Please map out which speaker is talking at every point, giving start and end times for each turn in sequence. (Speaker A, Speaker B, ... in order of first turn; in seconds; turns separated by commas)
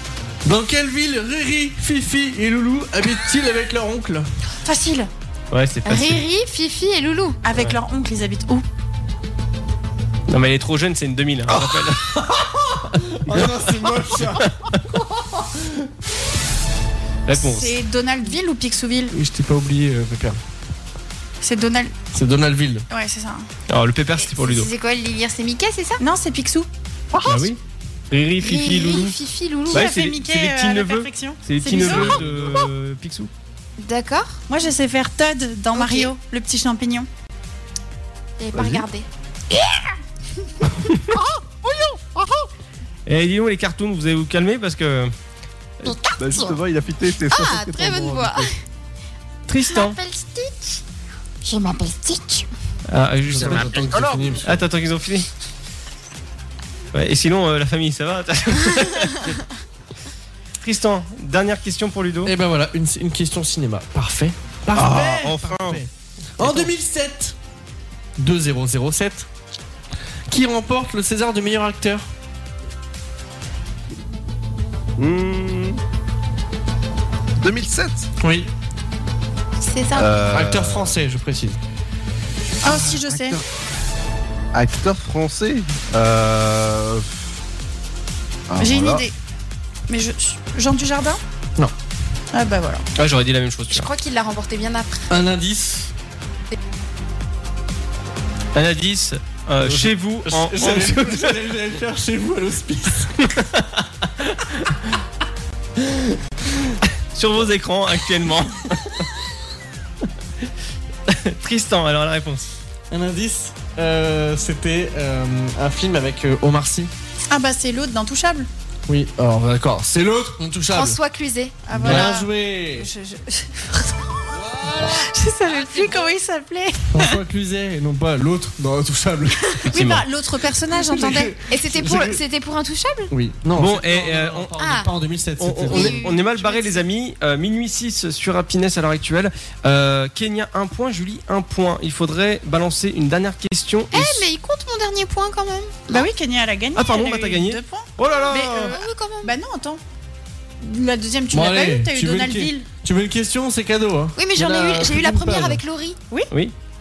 Speaker A: 0.4-4.2, Speaker B: 4.6-5.1, Speaker C: 5.5-6.2, Speaker D: 5.8-7.4, Speaker B: 7.4-8.6, Speaker C: 10.3-12.2, Speaker A: 11.5-15.9, Speaker C: 14.2-14.5, Speaker C: 17.3-17.8, Speaker B: 17.3-19.1, Speaker A: 19.1-20.4, Speaker B: 21.4-21.9, Speaker A: 22.1-22.9, Speaker B: 22.9-23.5, Speaker C: 23.7-24.7, Speaker D: 24.2-26.0, Speaker B: 26.0-26.7, Speaker C: 27.2-27.6, Speaker C: 28.1-29.1, Speaker D: 28.4-29.8, Speaker B: 29.7-32.2, Speaker C: 29.7-33.3, Speaker A: 31.7-32.7, Speaker D: 33.8-34.4, Speaker B: 34.5-37.1, Speaker D: 35.7-36.1, Speaker D: 38.4-39.0, Speaker E: 38.5-38.8, Speaker C: 43.0-45.1, Speaker D: 45.8-46.6, Speaker E: 46.2-48.5, Speaker D: 47.3-48.5, Speaker C: 49.5-50.0, Speaker D: 49.7-50.8, Speaker D: 51.5-52.1, Speaker C: 52.9-55.3, Speaker A: 53.3-54.6, Speaker E: 53.9-54.2, Speaker C: 56.9-59.3, Speaker C: 60.6-62.3, Speaker A: 62.2-67.3, Speaker E: 64.7-65.8, Speaker C: 66.4-66.7, Speaker A: 68.2-69.3, Speaker A: 70.3-72.0, Speaker E: 75.0-75.8, Speaker E: 77.4-78.1, Speaker A: 78.2-78.5, Speaker D: 79.6-80.2, Speaker E: 79.9-81.0, Speaker A: 80.3-81.6, Speaker B: 82.6-83.4, Speaker E: 82.6-83.4, Speaker E: 84.5-87.2, Speaker E: 88.5-89.0, Speaker B: 88.6-89.1, Speaker B: 89.9-91.2, Speaker B: 92.3-92.8, Speaker C: 93.0-93.9, Speaker D: 93.7-95.2, Speaker A: 95.1-95.9, Speaker C: 98.5-101.4, Speaker A: 99.6-103.1, Speaker C: 103.3-104.3, Speaker C: 107.1-109.1, Speaker C: 111.1-112.5, Speaker A: 112.9-116.9, Speaker B: 117.3-118.5, Speaker A: 118.9-121.0, Speaker D: 120.7-122.0, Speaker B: 121.7-127.2, Speaker A: 121.7-122.9, Speaker A: 124.3-125.0, Speaker D: 125.5-126.1, Speaker A: 126.9-129.6, Speaker B: 129.7-131.3, Speaker C: 129.7-130.0, Speaker A: 130.7-132.2, Speaker D: 131.5-133.1, Speaker A: 133.1-136.0, Speaker C: 133.6-134.5, Speaker D: 134.6-134.9, Speaker C: 135.4-144.2, Speaker D: 135.6-136.8, Speaker D: 143.9-146.0, Speaker B: 145.9-149.8, Speaker C: 146.7-148.8, Speaker D: 148.3-149.3, Speaker B: 150.6-152.7, Speaker A: 151.3-155.6, Speaker D: 154.2-156.0